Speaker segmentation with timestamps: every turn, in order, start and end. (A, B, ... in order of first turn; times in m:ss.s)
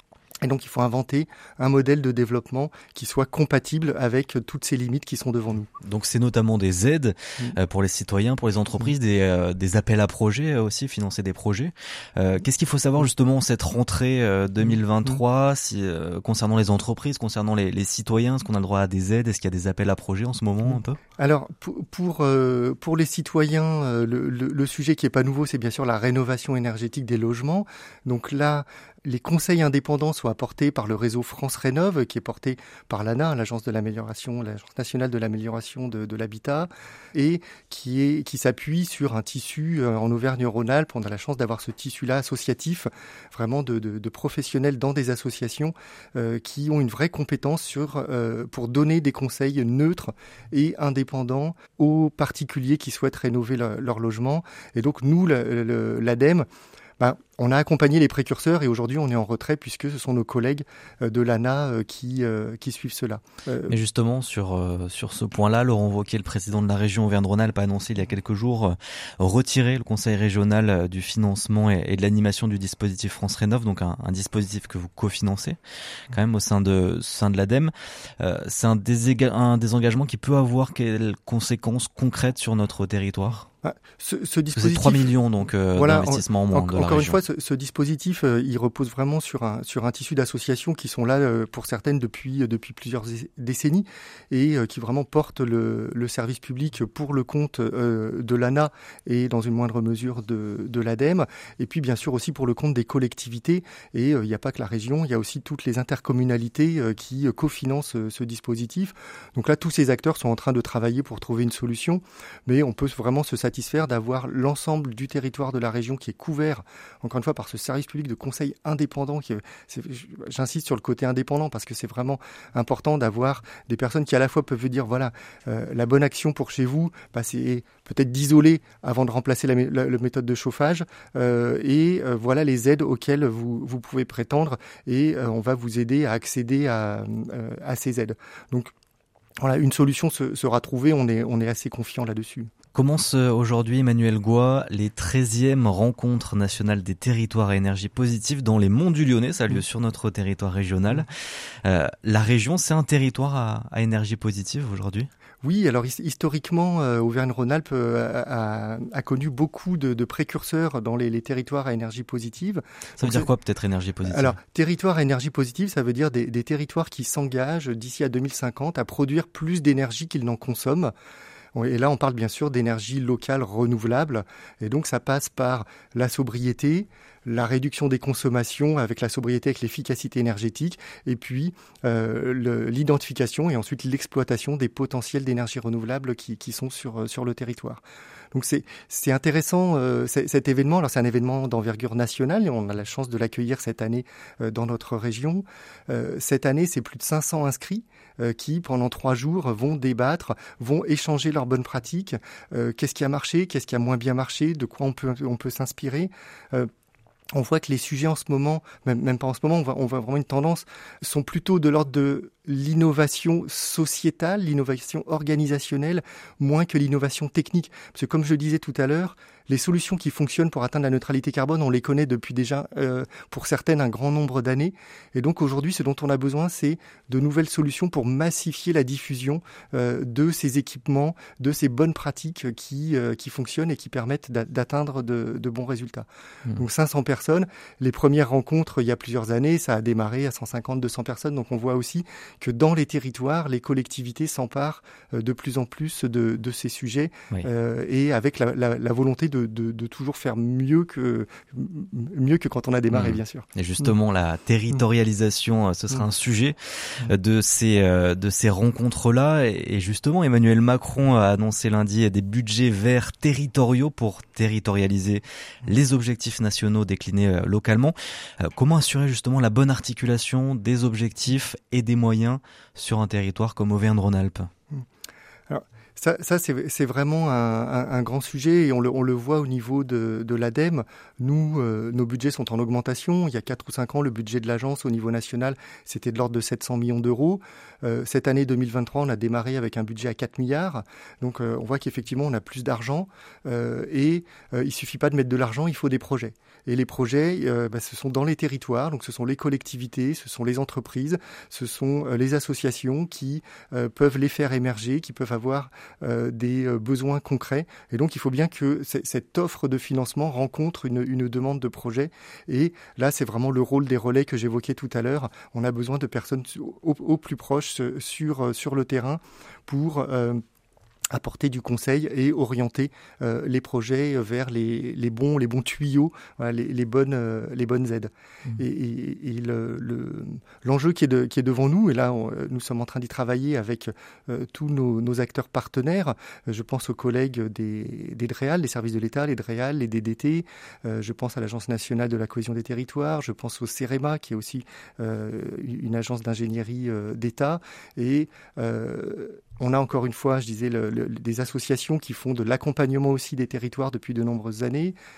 0:00.4-0:05.7 A
0:05.8-0:21.0 B
0:14.7-0:15.1 A
0:21.2-0:56.4 A
0:57.0-1:03.7 A
1:03.7-1:15.6 B
1:16.1-1:23.4 B
1:23.6-2:18.7 A
1:24.5-1:27.2 B
2:19.4-2:22.5 A
2:22.7-2:31.0 B
2:31.6-2:35.1 B
2:35.4-2:43.3 A
2:43.0-2:44.4 B
2:44.0-2:50.9 A
2:51.5-3:07.8 A
3:08.3-3:26.7 A
3:27.3-4:13.8 A
4:12.9-4:34.5 B
4:35.5-5:20.4 A
5:21.1-5:54.9 A